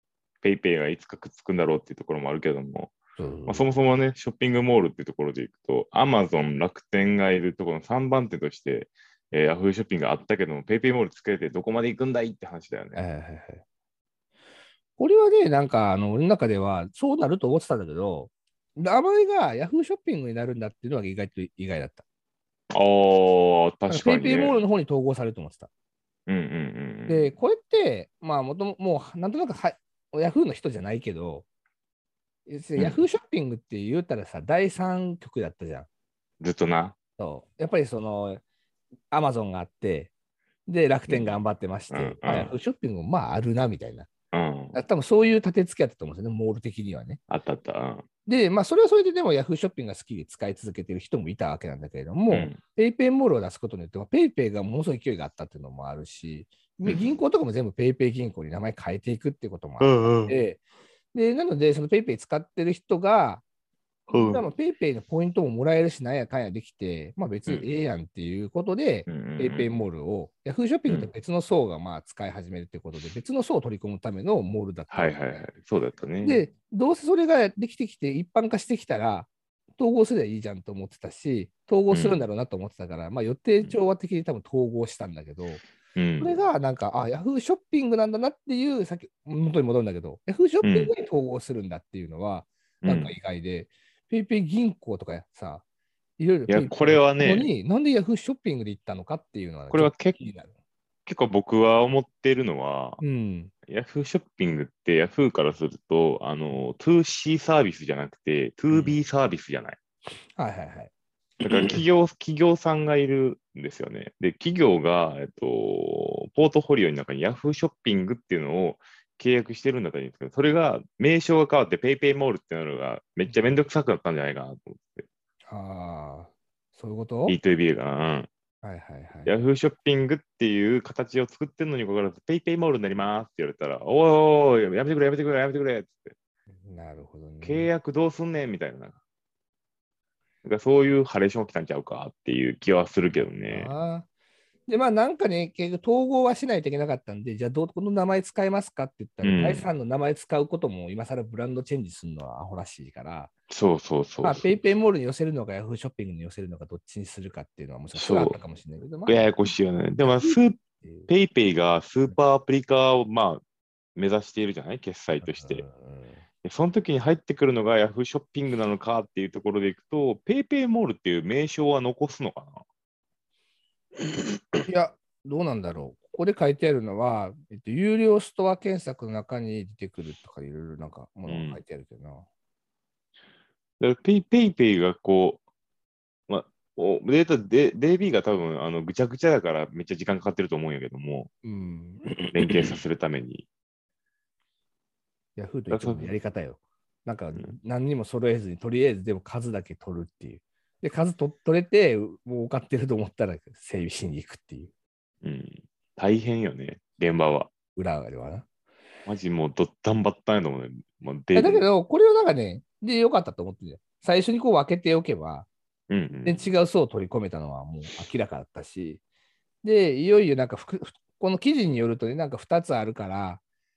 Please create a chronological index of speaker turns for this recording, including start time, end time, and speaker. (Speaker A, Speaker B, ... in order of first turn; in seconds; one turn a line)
Speaker A: 0.4-3.0
Speaker B: 3.2-3.6
Speaker A: 3.5-13.0
Speaker B: 12.9-13.6
Speaker B: 15.0-22.0
Speaker A: 22.7-24.6
Speaker B: 23.9-25.7
Speaker A: 26.3-27.3
Speaker B: 27.1-31.4
Speaker B: 32.5-35.9
Speaker A: 32.8-33.0
Speaker A: 36.4-37.0
Speaker B: 37.2-38.4
Speaker B: 39.1-40.1
Speaker B: 40.7-44.1
Speaker A: 41.1-41.4
Speaker A: 41.9-42.5
Speaker A: 44.3-44.8
Speaker B: 44.7-47.2
Speaker A: 47.3-48.0
Speaker B: 48.2-60.6
Speaker A: 52.3-52.6
Speaker A: 59.8-60.3
Speaker B: 61.1-63.4
Speaker A: 64.1-64.4
Speaker B: 64.1-75.4
Speaker A: 69.1-69.7
Speaker A: 70.9-71.1
Speaker A: 74.9-76.4
Speaker B: 76.2-85.6
Speaker A: 81.9-82.2
Speaker A: 86.0-86.3
Speaker B: 86.2-95.6
Speaker A: 90.6-90.9
Speaker A: 92.8-93.1
Speaker B: 96.2-100.5
Speaker A: 96.5-97.5
Speaker A: 99.7-100.2
Speaker A: 101.0-103.0
Speaker B: 103.0-103.5
Speaker A: 103.7-109.8
Speaker B: 108.7-109.0
Speaker B: 110.4-110.9
Speaker A: 111.4-125.1
Speaker B: 123.3-123.5
Speaker B: 125.5-127.4
Speaker A: 127.3-128.3
Speaker B: 128.6-129.3
Speaker A: 129.2-136.1
Speaker B: 136.6-137.7
Speaker A: 137.4-139.0
Speaker A: 140.4-143.7
Speaker B: 143.1-144.1
Speaker B: 144.7-153.3
Speaker A: 149.2-149.7
Speaker A: 153.5-154.5
Speaker B: 154.2-159.5
Speaker A: 157.9-158.4
Speaker A: 159.1-163.4
Speaker B: 160.0-161.1
Speaker A: 163.9-165.6
Speaker B: 165.2-166.2
Speaker A: 166.4-172.6
Speaker B: 174.6-182.3
Speaker A: 181.3-181.6
Speaker A: 183.8-185.4
Speaker A: 186.3-191.3
Speaker B: 191.4-192.8
Speaker A: 192.3-193.5
Speaker B: 195.4-204.7
Speaker A: 195.7-196.1
Speaker A: 205.2-207.5
Speaker B: 207.8-208.4
Speaker A: 209.1-211.7
Speaker B: 211.3-215.5
Speaker A: 215.9-216.5
Speaker B: 216.2-219.0
Speaker B: 219.6-223.4